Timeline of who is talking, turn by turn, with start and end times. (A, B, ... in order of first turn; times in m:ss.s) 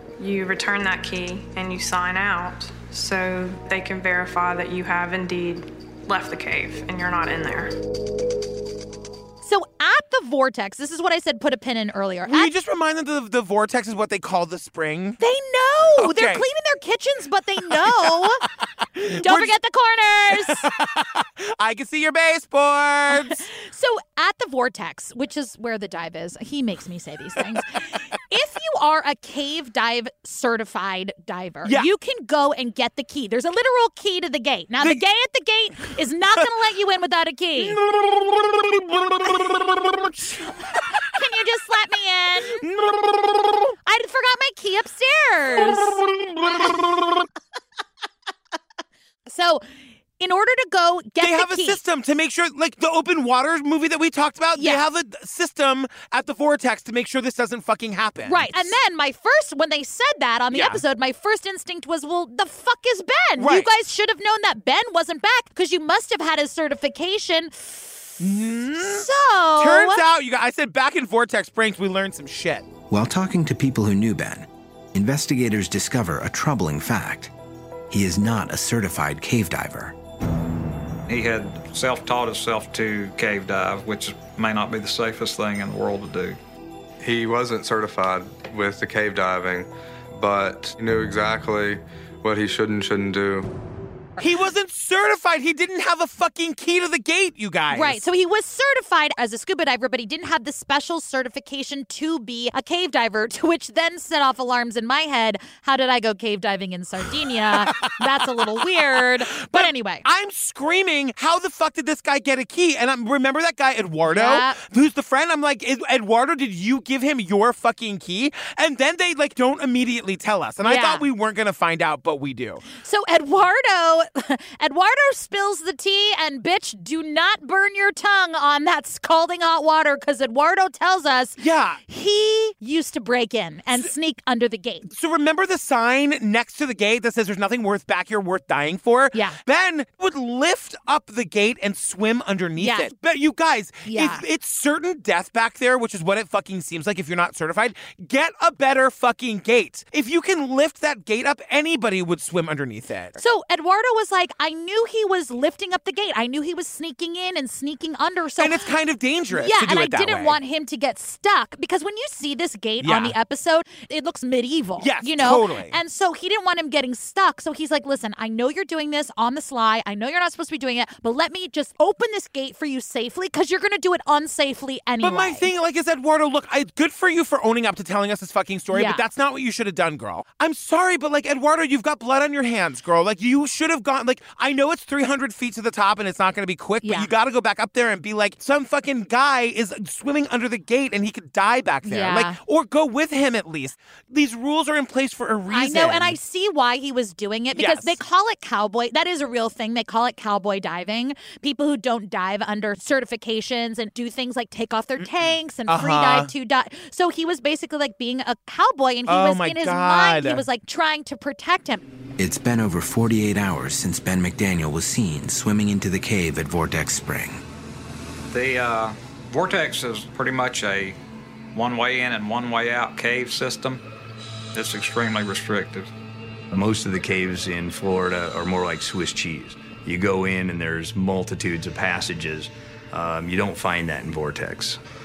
0:00.2-0:07.7 A
0:09.4-0:12.5 B
0:12.3-0:15.2 C
0:15.2-0:18.4 B
0:16.0-0:16.4 C
0:18.9-0:19.5 C
0:19.1-0:20.7 B
0:20.3-0:23.4 C
0:23.1-0:37.8 B
0:37.6-0:40.8 C
0:40.9-0:42.6 B
0:42.6-0:43.7 C
0:43.8-0:46.0 B
0:45.8-0:47.2 C
0:49.3-0:49.6 B
0:50.2-0:51.8 B
0:51.2-0:58.7 C
0:54.6-0:54.8 B
0:58.2-1:07.8 B
1:00.5-1:00.8 C
1:03.4-1:03.7 C
1:08.2-1:12.7 C
1:08.8-1:10.0 B
1:12.9-1:17.3 D
1:17.9-1:20.0 D
1:21.1-1:26.4 E
1:27.0-1:33.5 F
1:34.2-1:38.0 C
1:37.7-1:50.0 B
1:47.6-1:48.8 C
1:49.3-2:02.6 C
1:54.1-1:54.6 B
2:00.6-2:01.0 B
2:02.7-2:14.9 B
2:11.4-2:11.8 C
2:14.9-2:33.2 C
2:22.6-2:22.9 B
2:23.8-2:24.2 B
2:33.2-2:38.7 B
2:38.4-2:40.4 C
2:39.3-2:55.5 B
2:42.8-2:43.1 C
2:44.8-2:45.8 C
2:55.0-3:16.2 C
2:58.7-2:59.0 B
3:06.8-3:07.1 B
3:11.8-3:12.4 B
3:15.5-3:31.8 B
3:17.5-3:18.0 C
3:25.7-3:26.3 C
3:29.1-3:30.4 C
3:32.2-3:37.4 D
3:38.3-3:41.0 E
3:41.5-3:43.8 E
3:44.5-3:45.9 E
3:46.5-3:54.8 G